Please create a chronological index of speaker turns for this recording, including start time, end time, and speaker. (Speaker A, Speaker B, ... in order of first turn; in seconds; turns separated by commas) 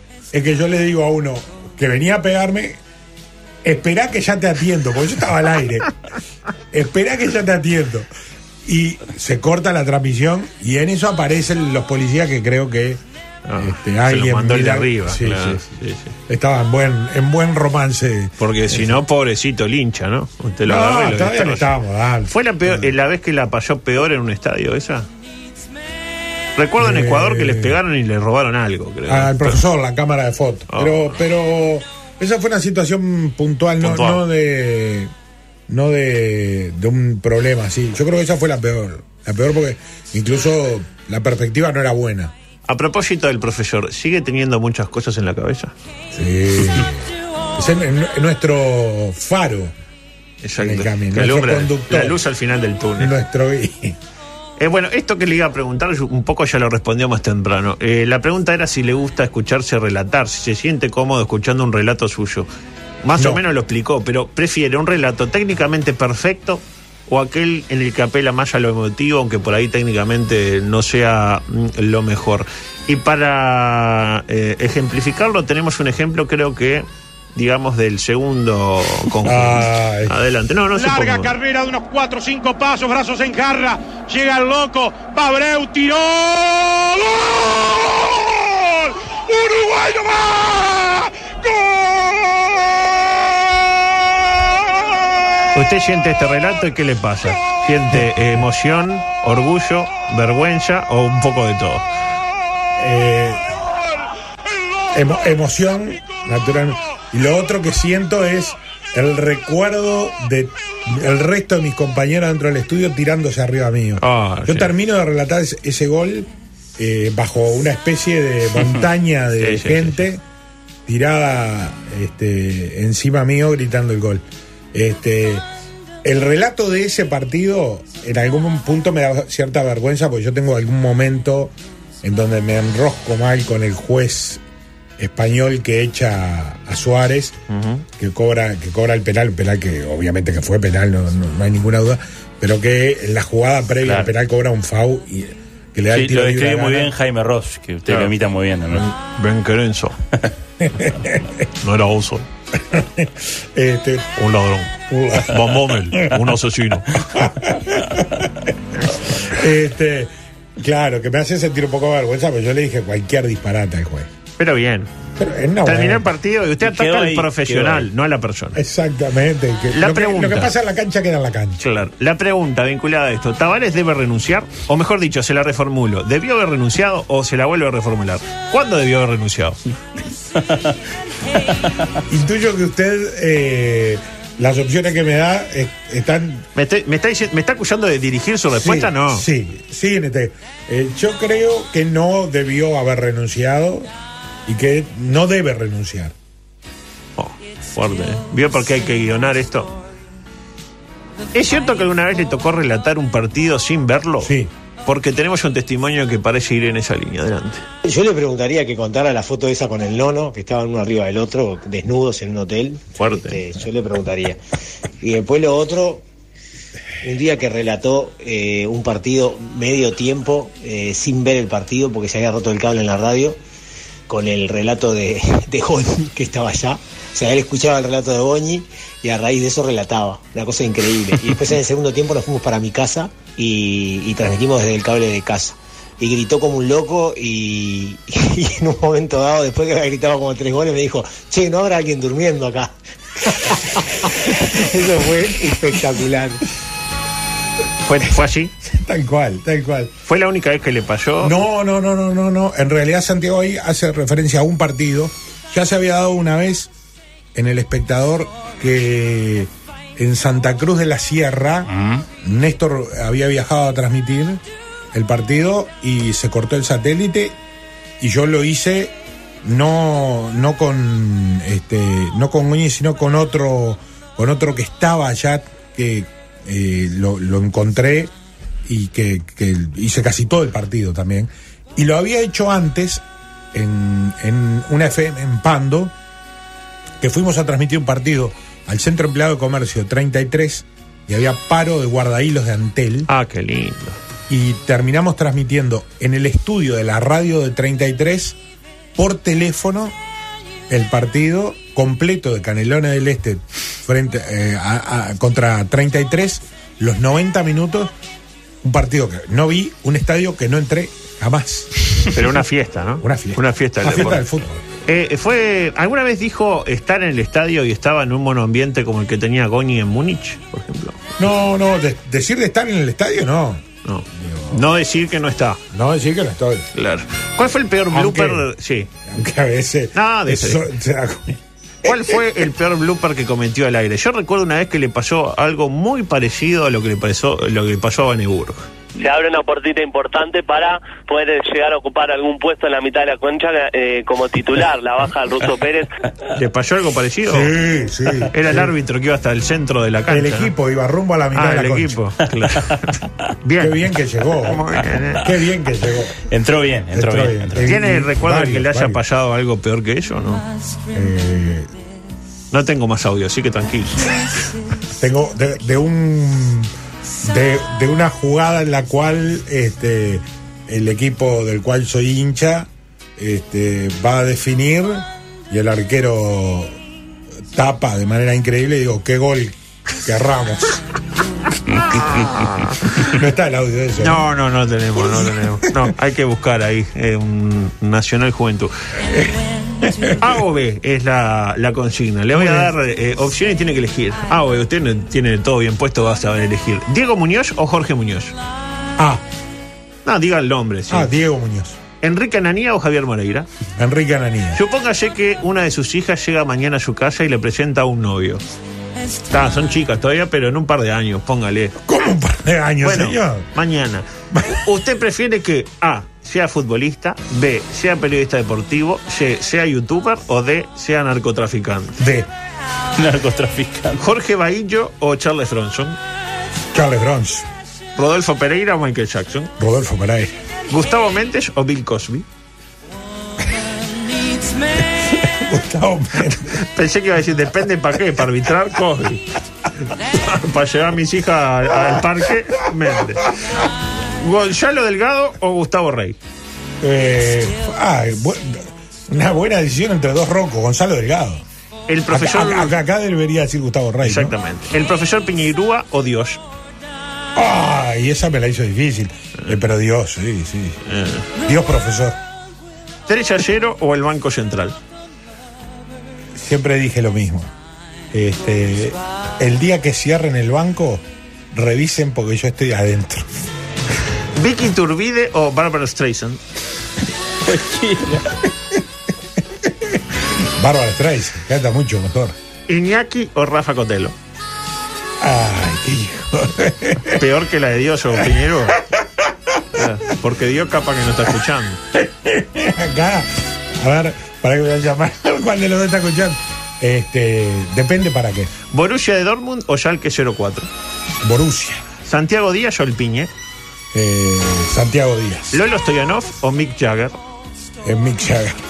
Speaker A: 0.3-2.8, Speaker A: 3.6-5.9, Speaker A: 6.7-8.1, Speaker A: 8.7-13.0, Speaker B: 13.5-16.1, Speaker A: 13.6-15.7, Speaker A: 16.3-19.0, Speaker B: 18.4-21.7, Speaker A: 20.6-22.9, Speaker B: 22.3-25.1, Speaker B: 26.6-29.6, Speaker A: 26.8-27.8, Speaker A: 29.1-35.1, Speaker B: 30.7-31.2, Speaker B: 33.8-34.2, Speaker A: 35.7-42.3, Speaker B: 42.7-45.7, Speaker A: 46.1-49.7, Speaker B: 50.4-53.1, Speaker A: 50.6-52.2, Speaker A: 53.0-54.0, Speaker B: 54.6-62.5, Speaker B: 63.0-81.3, Speaker A: 63.2-63.4, Speaker A: 79.2-80.2, Speaker C: 80.7-91.6, Speaker B: 95.5-101.8, Speaker A: 102.8-103.4, Speaker A: 104.9-120.2, Speaker B: 114.0-114.7, Speaker B: 119.4-120.0, Speaker A: 120.9-125.5, Speaker A: 126.0-134.4, Speaker A: 135.0-137.4, Speaker B: 137.5-137.8, Speaker A: 138.0-146.9, Speaker D: 143.8-144.1, Speaker D: 145.9-148.8, Speaker B: 148.7-150.0, Speaker A: 150.6-151.5, Speaker B: 151.6-152.3, Speaker A: 152.5-154.1, Speaker B: 154.2-157.2, Speaker A: 154.9-156.2, Speaker A: 157.1-158.5, Speaker A: 159.2-164.1, Speaker B: 164.4-164.9, Speaker A: 165.2-166.1, Speaker B: 165.6-168.6, Speaker D: 166.6-167.9, Speaker A: 168.6-171.7, Speaker B: 169.7-170.5, Speaker B: 171.6-179.6, Speaker A: 182.1-186.5, Speaker B: 186.6-189.2, Speaker A: 188.5-193.9, Speaker A: 194.5-196.2, Speaker B: 197.2-199.8, Speaker B: 201.3-204.3, Speaker A: 204.2-204.5, Speaker B: 204.9-207.6, Speaker E: 207.8-214.4, Speaker B: 213.0-213.4, Speaker E: 215.0-216.0, Speaker E: 217.0-223.4, Speaker E: 224.1-246.4, Speaker B: 247.8-248.5, Speaker A: 248.6-249.9, Speaker B: 250.1-251.4, Speaker A: 251.2-256.7, Speaker A: 257.4-261.7, Speaker D: 261.7-262.1, Speaker A: 262.2-264.4, Speaker A: 264.9-267.4, Speaker A: 268.0-278.1, Speaker A: 278.6-285.9, Speaker A: 287.0-293.1, Speaker B: 293.1-294.0, Speaker A: 294.3-298.4, Speaker A: 299.0-300.0, Speaker A: 300.7-307.9, Speaker A: 308.6-312.0, Speaker B: 312.1-314.2, Speaker A: 313.0-314.6, Speaker B: 314.9-321.0, Speaker A: 321.2-323.6, Speaker B: 323.9-325.6, Speaker A: 324.1-324.6, Speaker A: 325.7-326.7, Speaker B: 326.7-328.9, Speaker A: 327.9-328.5, Speaker A: 329.1-332.2, Speaker B: 329.9-330.7, Speaker B: 331.8-338.7, Speaker F: 339.0-345.9, Speaker B: 346.3-347.5, Speaker A: 347.3-348.7, Speaker B: 348.3-350.5, Speaker A: 350.1-352.0, Speaker B: 351.3-355.4, Speaker A: 353.6-354.6, Speaker A: 355.2-356.2, Speaker D: 356.3-357.7, Speaker A: 356.9-359.0, Speaker B: 357.6-360.4, Speaker A: 360.9-361.7, Speaker B: 362.5-364.2, Speaker A: 365.0-366.7, Speaker A: 367.2-376.8, Speaker A: 377.5-380.8, Speaker B: 382.0-383.1, Speaker A: 383.0-384.2, Speaker B: 384.0-388.7, Speaker A: 385.0-385.9, Speaker A: 389.1-390.2, Speaker B: 390.2-398.4, Speaker A: 392.3-392.7, Speaker A: 399.0-399.2, Speaker B: 400.1-401.1, Speaker A: 400.9-401.8, Speaker B: 402.0-403.5, Speaker A: 403.8-404.6, Speaker B: 404.6-408.4, Speaker B: 409.3-411.8, Speaker A: 411.8-413.5, Speaker B: 412.8-422.0, Speaker A: 422.0-422.3, Speaker D: 423.0-424.0, Speaker B: 424.0-426.0, Speaker A: 426.7-427.5, Speaker B: 428.0-429.5, Speaker A: 429.6-430.4, Speaker B: 430.7-432.3, Speaker A: 435.1-436.6, Speaker B: 436.5-439.2, Speaker B: 440.1-443.3, Speaker B: 444.2-446.2, Speaker A: 446.8-451.4, Speaker B: 451.9-452.8, Speaker A: 452.1-454.4, Speaker B: 454.0-456.4, Speaker A: 457.4-460.8, Speaker B: 460.9-461.2, Speaker A: 461.4-462.2, Speaker B: 463.1-464.8, Speaker A: 466.4-467.5, Speaker A: 468.1-473.3, Speaker B: 474.4-476.4, Speaker D: 477.5-478.3, Speaker A: 479.6-482.4, Speaker B: 482.7-484.1, Speaker A: 485.2-487.2, Speaker B: 487.1-488.9, Speaker A: 488.8-489.9, Speaker B: 489.7-491.8, Speaker A: 491.9-498.5, Speaker B: 498.7-500.7, Speaker A: 501.2-501.9, Speaker B: 502.1-503.3, Speaker A: 503.9-505.6, Speaker B: 505.5-507.2, Speaker A: 507.8-508.6